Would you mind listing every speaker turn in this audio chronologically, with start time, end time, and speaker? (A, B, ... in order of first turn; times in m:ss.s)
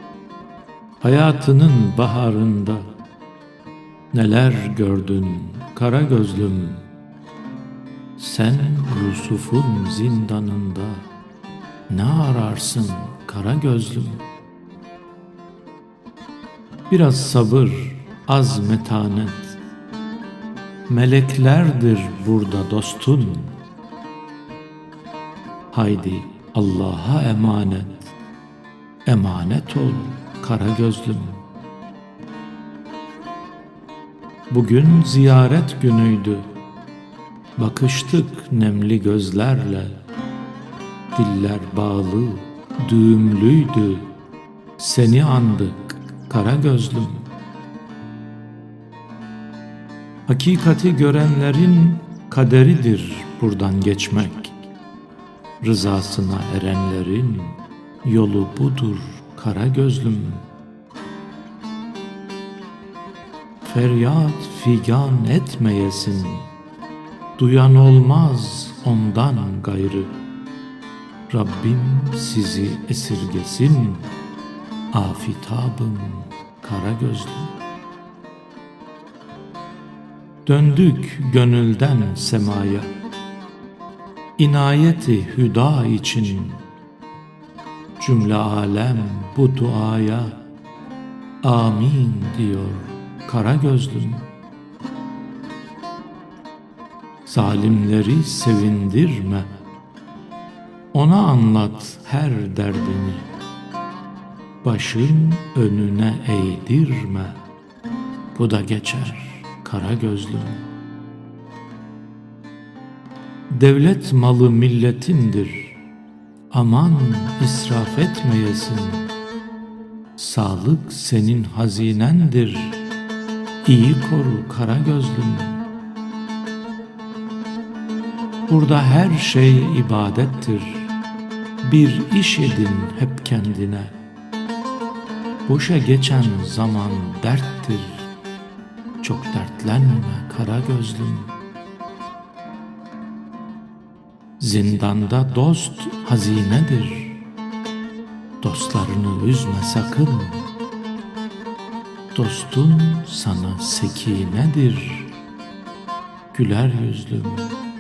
0:01.0-0:02.9 A
0:04.1-0:06.8 A
0:08.2-0:11.0 A
0:11.9-0:14.2 A
0:16.9-0:19.6 A
0:20.9-0:23.6 A
0:25.7-0:28.1 A
0:29.0-0:31.4 A
0:34.5-0:36.5 A
0:37.6-0:40.0 A
0:41.1-0:44.1 A
0:44.8-0:47.3 A
0:50.2-0:54.6 A
0:55.6-1:00.5 A
1:03.6-1:06.5 A
1:07.4-1:10.2 A
1:11.3-1:14.1 A
1:14.9-1:17.6 A
1:20.4-1:22.9 A
1:24.4-1:26.6 A
1:28.0-1:30.4 A
1:31.4-1:34.3 A
1:37.2-1:39.5 A
1:40.9-1:43.3 A
1:44.6-1:47.4 A
1:48.3-1:50.6 A
1:53.5-1:55.9 A
1:56.5-1:59.1 A
2:00.2-2:02.8 A
2:03.6-2:05.6 A
2:08.5-2:10.9 A
2:11.6-2:14.0 A
2:15.5-2:18.1 A
2:19.0-2:21.3 A
2:24.4-2:27.3 A
2:28.4-2:30.5 A
2:32.1-2:35.2 A
2:36.3-2:37.5 A